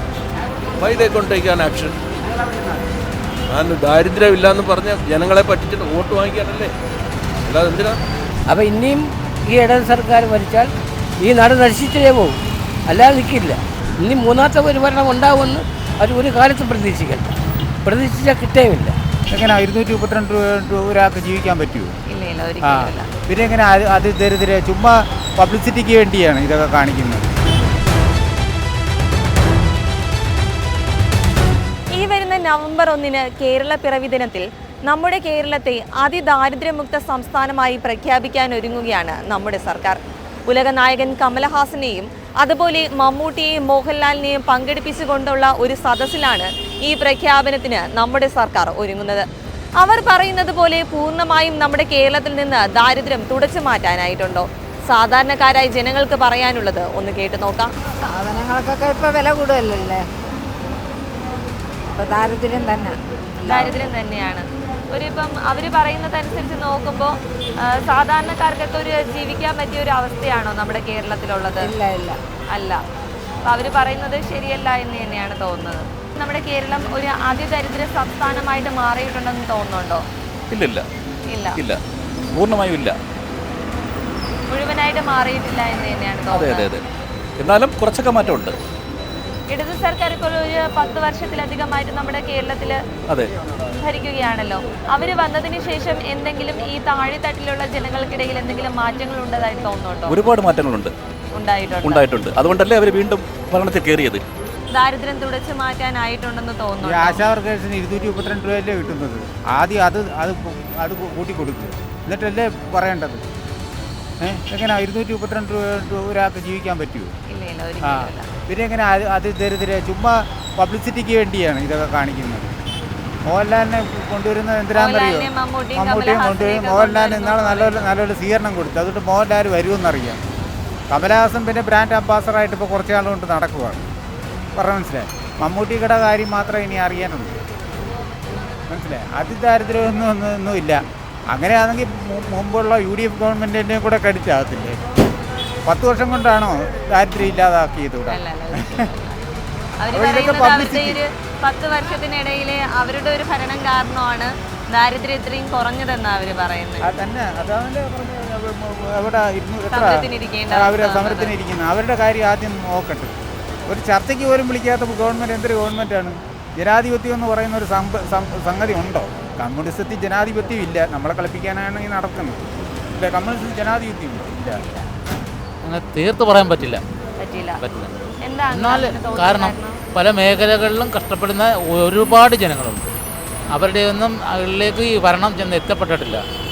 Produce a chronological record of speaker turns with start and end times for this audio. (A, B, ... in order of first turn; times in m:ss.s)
0:00.8-0:02.0 A
0:03.5-0:06.7 A
0:07.4-0:08.0 A
0:08.5-0:10.7 B
0:11.2-0:12.4 B
0:12.9-0:19.0 B
0:19.3-0:21.9 C
0:22.1-0:23.1 D
0:22.6-0:27.3 C
0:31.9-0:49.2 D
0:49.8-0:57.7 D
0:58.0-1:00.1 E
1:01.9-1:03.8 E
1:03.5-1:07.1 D
1:07.8-1:11.7 D
1:11.6-1:12.2 E
1:12.5-1:12.8 D
1:13.4-1:20.0 D
1:20.5-1:20.8 F
1:21.3-1:21.6 D
1:21.5-1:21.8 F
1:22.3-1:23.0 F
1:24.5-1:26.7 D
1:26.3-1:26.8 F
1:27.4-1:28.6 F
1:29.5-1:32.8 D
1:33.8-1:40.2 D
1:40.1-1:40.9 F
1:41.4-1:42.1 D
1:41.8-1:44.2 F
1:44.7-1:47.2 D
1:46.8-1:53.2 C
1:54.2-1:57.1 C
1:57.3-1:58.2 D
1:57.8-2:02.5 C
2:03.2-2:10.2 C
2:04.8-2:07.9 D
2:10.9-2:13.8 C
2:14.6-2:17.4 C
2:18.7-2:20.8 C
2:21.3-2:24.8 C
2:25.6-2:28.7 C
2:28.1-2:29.2 D
2:29.8-2:36.9 D
2:29.9-2:31.0 C
2:36.8-2:43.2 C
2:39.7-2:41.4 D
2:43.7-2:54.6 C
2:54.5-2:54.8 D
2:55.6-2:56.8 G
2:57.2-2:57.6 D
2:57.6-2:57.9 G
2:58.2-2:59.8 D
2:58.5-3:02.8 G
3:03.5-3:06.2 G